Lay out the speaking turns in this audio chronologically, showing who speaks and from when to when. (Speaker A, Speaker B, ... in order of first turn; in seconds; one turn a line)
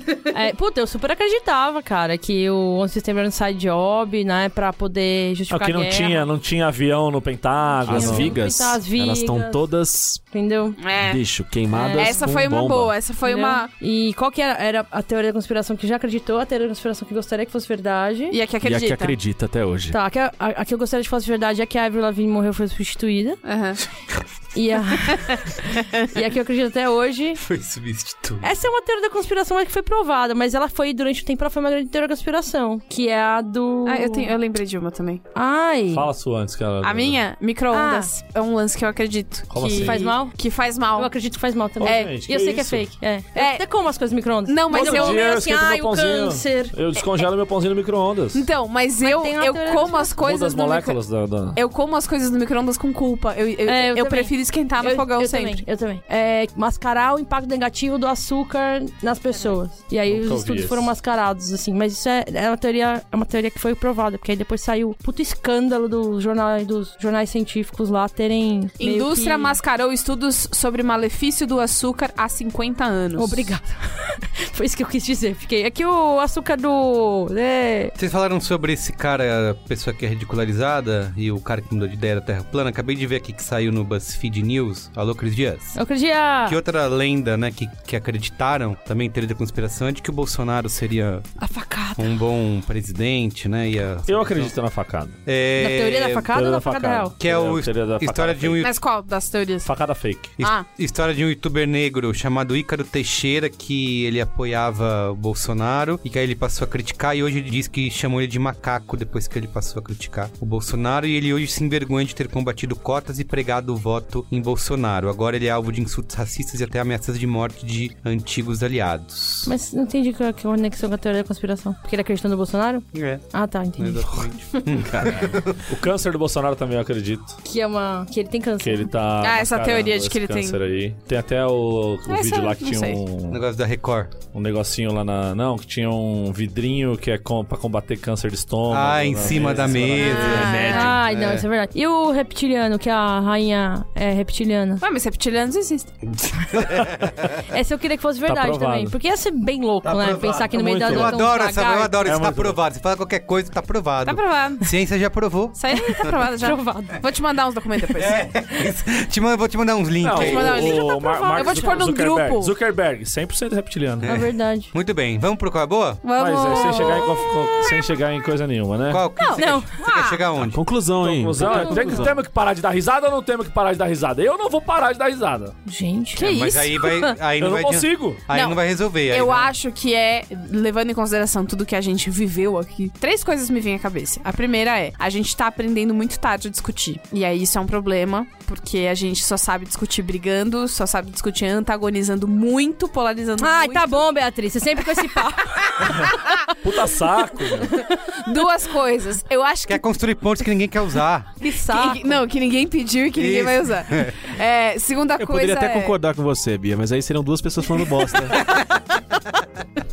Speaker A: 0.3-6.3
Speaker B: 5.5-8.4
Speaker A: 7.7-9.7
Speaker C: 7.9-10.2
Speaker A: 10.3-10.8
Speaker D: 10.8-11.2
Speaker C: 11.0-12.9
Speaker A: 11.7-12.3
Speaker D: 12.0-13.7
Speaker A: 13.2-18.4
Speaker D: 18.3-19.2
Speaker C: 18.6-20.0
Speaker A: 19.9-23.4
Speaker D: 23.4-23.8
Speaker A: 24.5-27.4
Speaker E: 27.4-28.5
Speaker A: 28.4-34.3
Speaker D: 33.9-35.2
Speaker A: 35.4-36.1
Speaker B: 35.9-37.2
Speaker D: 36.8-41.1
Speaker A: 37.7-38.1
Speaker B: 39.5-40.2
Speaker A: 39.6-40.4
Speaker A: 41.0-46.8
Speaker B: 41.8-43.0
Speaker D: 41.8-42.1
Speaker D: 43.4-43.6
Speaker D: 44.5-45.2
Speaker B: 44.7-48.5
Speaker D: 48.3-55.6
Speaker A: 49.0-50.2
Speaker B: 50.2-51.6
Speaker A: 53.7-69.5
Speaker B: 60.1-60.9
Speaker D: 68.8-73.5
Speaker A: 73.2-78.0
Speaker E: 78.0-85.8
Speaker A: 85.8-86.6
Speaker E: 86.5-91.3
Speaker A: 91.4-92.1
Speaker E: 92.0-94.5
Speaker B: 94.1-95.2
Speaker E: 95.3-96.3
Speaker A: 95.6-97.1
Speaker B: 96.3-98.7
Speaker E: 97.2-98.7
Speaker D: 98.6-99.7
Speaker B: 99.6-100.4
Speaker E: 100.4-119.5
Speaker D: 100.4-100.7
Speaker A: 119.5-124.3
Speaker E: 122.9-125.6
Speaker C: 124.9-125.3
Speaker B: 125.7-127.4
Speaker A: 127.5-128.9
Speaker B: 128.6-133.4
Speaker D: 129.2-130.6
Speaker D: 132.1-133.0
Speaker E: 133.3-134.2
Speaker B: 134.3-141.4
Speaker E: 138.7-140.9
Speaker D: 140.0-140.9
Speaker A: 140.0-144.8
Speaker D: 144.8-146.0
Speaker E: 146.1-147.4
Speaker B: 146.8-147.1
Speaker A: 147.5-152.1
Speaker B: 148.3-149.0
Speaker E: 149.8-156.1
Speaker B: 150.5-151.2
Speaker B: 152.0-152.6
Speaker D: 154.0-154.7
Speaker D: 155.6-158.2
Speaker A: 155.7-157.0
Speaker E: 158.0-160.8
Speaker B: 160.0-164.1
Speaker D: 160.1-162.5
Speaker A: 160.8-161.8
Speaker E: 164.0-166.1
Speaker A: 164.1-164.7
Speaker D: 166.0-167.8
Speaker B: 166.2-169.0
Speaker A: 166.5-167.0
Speaker E: 168.9-170.7
Speaker D: 169.2-170.2
Speaker A: 169.4-169.7
Speaker C: 170.4-172.2
Speaker B: 171.0-175.6
Speaker A: 171.5-171.9
Speaker D: 171.7-171.9
Speaker A: 175.7-176.3
Speaker D: 176.2-177.1
Speaker E: 176.2-179.5
Speaker B: 177.4-178.2
Speaker D: 178.3-194.1
Speaker A: 193.4-196.2
Speaker D: 195.0-196.3
Speaker B: 196.6-197.8
Speaker A: 197.5-198.0
Speaker D: 198.2-199.8
Speaker E: 199.7-201.3
Speaker A: 201.4-202.0
Speaker D: 201.5-206.0
Speaker E: 203.2-204.2
Speaker C: 205.2-208.4